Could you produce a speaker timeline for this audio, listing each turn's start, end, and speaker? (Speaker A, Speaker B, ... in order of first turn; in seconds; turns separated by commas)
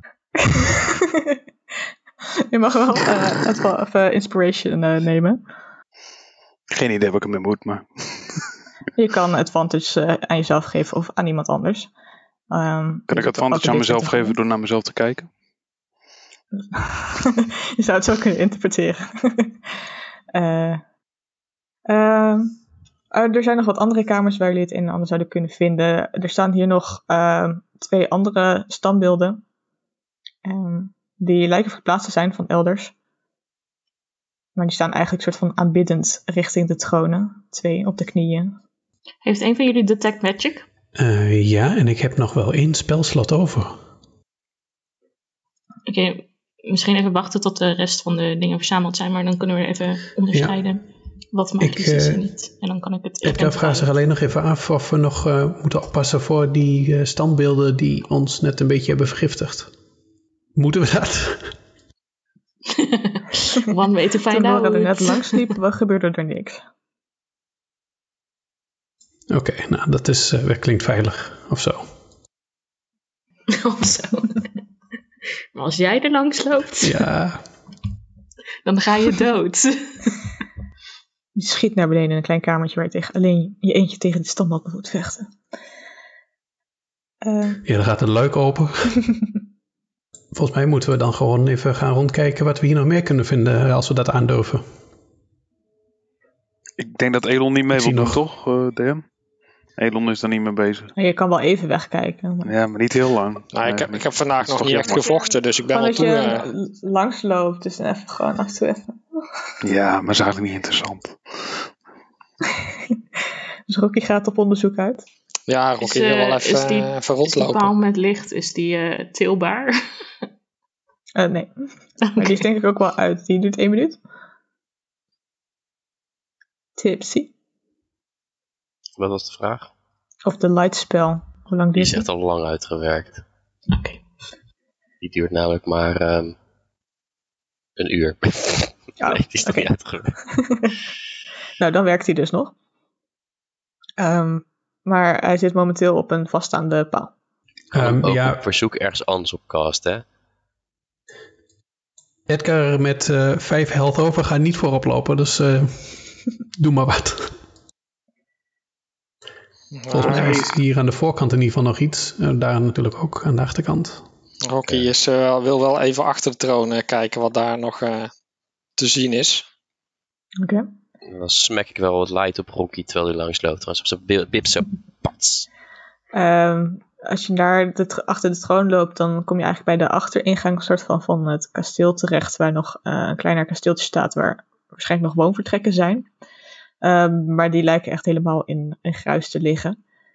Speaker A: 0.4-1.4, Speaker A: 2.5-5.4, Speaker B: 6.7-8.4, Speaker A: 8.9-11.9, Speaker A: 12.5-14.4, Speaker B: 13.1-15.3, Speaker A: 16.5-19.6, Speaker A: 20.3-20.8, Speaker A: 21.9-22.6, Speaker A: 23.1-29.4, Speaker A: 30.4-32.9, Speaker A: 34.5-38.6, Speaker C: 39.2-40.6, Speaker D: 40.9-43.8, Speaker C: 45.9-53.9, Speaker D: 50.3-50.6, Speaker D: 51.6-52.2, Speaker D: 53.2-59.7, Speaker D: 60.5-61.5, Speaker C: 62.7-65.4, Speaker A: 64.3-66.6, Speaker D: 69.3-71.9, Speaker C: 73.5-74.5, Speaker C: 75.5-77.0, Speaker D: 76.8-77.4, Speaker C: 78.6-80.2, Speaker A: 81.3-85.3, Speaker A: 87.2-87.6, Speaker D: 87.6-89.0, Speaker D: 90.3-94.6, Speaker B: 96.8-99.0, Speaker D: 97.7-98.2, Speaker B: 99.8-100.9, Speaker A: 101.0-102.5, Speaker B: 102.4-105.2, Speaker E: 103.5-106.5, Speaker A: 105.7-109.2, Speaker B: 109.6-111.6, Speaker A: 113.7-115.0, Speaker E: 115.5-117.7, Speaker C: 115.8-119.7, Speaker A: 121.2-121.5, Speaker A: 122.1-124.0, Speaker A: 126.8-127.3, Speaker F: 129.0-129.7, Speaker A: 130.2-132.1, Speaker F: 131.8-133.2, Speaker C: 133.7-134.0, Speaker F: 135.0-136.3, Speaker F: 137.8-140.2, Speaker A: 139.0-140.8, Speaker A: 141.6-142.5, Speaker A: 144.0-147.1, Speaker F: 147.7-150.0, Speaker D: 147.7-148.4, Speaker D: 152.3-157.3, Speaker E: 159.7-160.5, Speaker D: 159.9-164.0, Speaker E: 164.5-168.1, Speaker E: 168.8-169.4, Speaker A: 170.4-170.7, Speaker F: 171.1-175.5, Speaker A: 176.1-186.1, Speaker A: 186.8-189.8